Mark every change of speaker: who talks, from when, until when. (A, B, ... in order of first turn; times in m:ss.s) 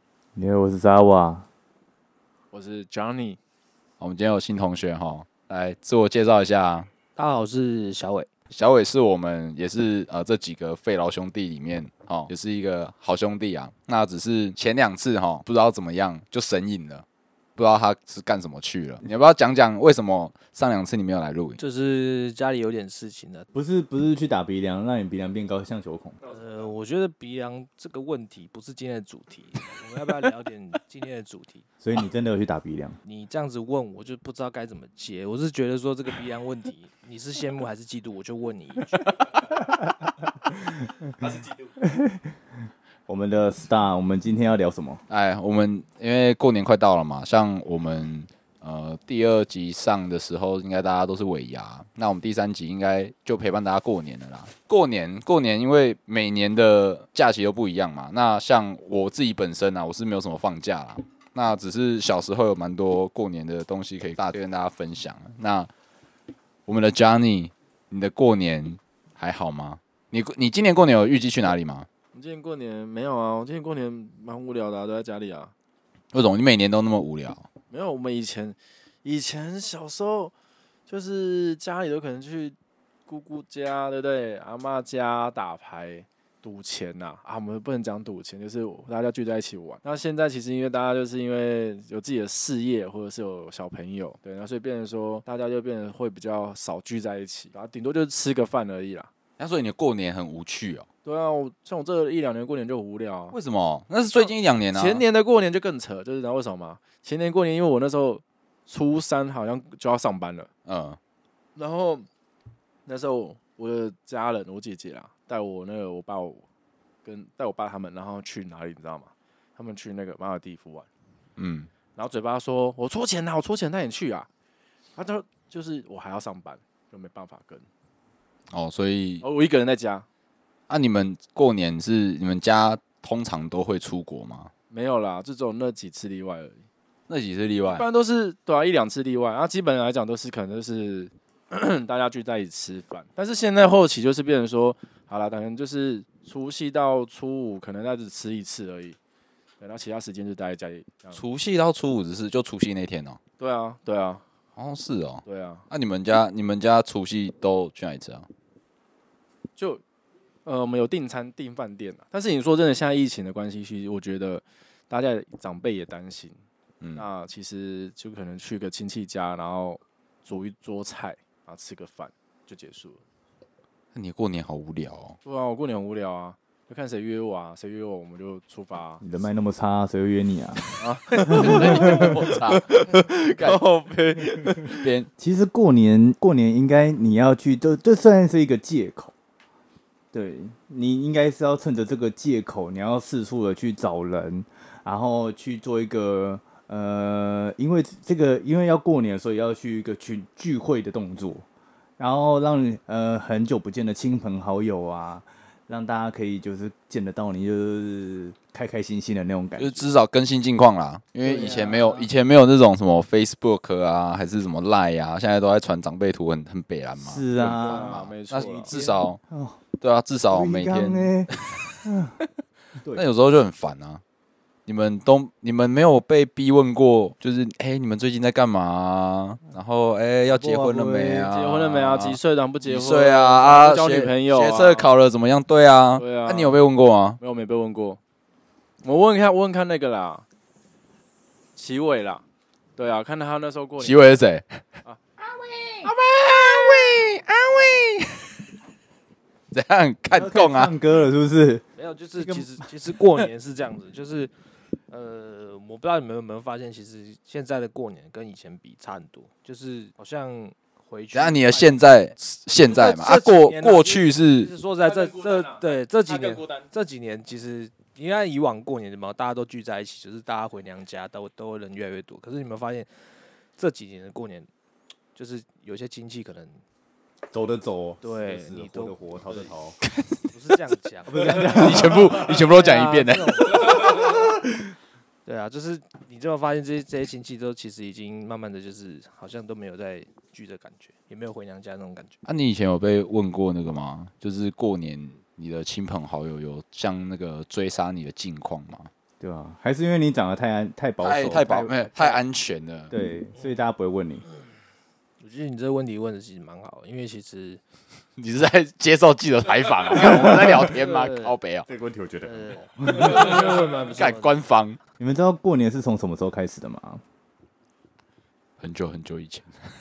0:00.4-0:01.4 A
0:02.5-0:03.4 B
0:04.0-0:06.9 C
0:07.2-0:08.3 D
0:08.5-0:17.0 C
0:17.6-0:21.6 C
0:21.6-0:23.4 D
0:23.5-0:26.2 A
0:26.3-0:31.6 D
0:31.8-0:33.0 A
0:33.0-0:39.0 D
0:39.8-0:42.3 A
0:43.1-0:45.0 A
0:45.1-1:05.7 C
1:06.6-1:11.9 C
1:12.1-1:15.5 B
1:16.1-1:17.4 C
1:17.7-1:20.3 B
1:20.9-1:22.6 B
1:23.1-1:39.1 B
1:39.4-1:40.9 C
1:41.0-1:43.4 B
1:43.3-1:45.0 C
1:44.2-1:50.5 B
1:50.6-1:51.0 C
1:51.6-1:52.1 B
1:52.8-1:56.4 B
1:57.0-2:00.9 B
2:01.4-2:01.7 C
2:01.9-2:04.3 B
2:05.0-2:07.7 B
2:08.5-2:09.2 C
2:09.2-2:10.0 B
2:10.7-2:14.5 C
2:14.7-2:16.6 B
2:17.1-2:17.8 C
2:17.7-2:29.0 B
2:29.6-2:31.2 B
2:31.1-2:33.2 C
2:33.4-2:34.2 B
2:34.6-2:38.3 C
2:35.2-2:35.6 B
2:39.6-2:39.8 B
2:40.4-2:46.4 B
2:46.8-2:47.0 C
2:47.0-2:53.0 B
2:53.9-2:55.2 C
2:55.2-2:59.0 B
2:59.0-3:00.6 A
3:00.8-3:04.9 B
3:01.2-3:02.8 C
3:01.3-3:02.1 A
3:04.7-3:05.1 C
3:05.2-3:09.1 A
3:10.1-3:21.4 A
3:22.0-3:29.8 A
3:29.6-3:39.2 C
3:31.2-3:32.0 B
3:31.4-3:31.7 A
3:37.0-3:39.6 A
3:37.4-3:38.8 B
3:39.8-3:41.8 C
3:40.3-3:42.2 A
3:42.8-3:43.0 A
3:42.9-3:44.0 C
3:44.6-3:57.2 C
3:50.3-3:51.3 A
3:51.1-3:54.9 B
3:56.0-3:56.7 B
3:57.2-3:58.0 B
3:58.8-4:00.2 B
4:01.6-4:02.2 B
4:02.8-4:04.0 B
4:03.8-4:04.6 C
4:05.8-4:08.3 C
4:09.5-4:10.7 C
4:10.1-4:11.6 A
4:11.8-4:14.3 D
4:12.2-4:12.6 A
4:14.9-4:21.8 D
4:21.1-4:24.5 C
4:22.6-4:32.9 D
4:24.9-4:25.6 B
4:26.1-4:26.6 B
4:33.6-4:34.5 D
4:35.1-4:36.6 D
4:37.3-4:39.8 A
4:38.0-4:39.5 D
4:39.8-4:40.3 C
4:40.3-4:44.1 D
4:41.0-4:42.3 A
4:41.2-4:43.8 C
4:43.5-4:44.7 A
4:45.2-4:52.2 D
4:52.2-4:58.9 C
4:59.2-5:01.8 A
5:01.0-5:02.9 C
5:02.9-5:04.2 A
5:05.2-5:07.6 D
5:08.2-5:11.7 C
5:09.9-5:10.7 A
5:10.6-5:11.4 D
5:11.7-5:13.4 A
5:12.2-5:14.3 D
5:13.3-5:14.8 C
5:15.0-5:17.0 A
5:18.6-5:19.5 C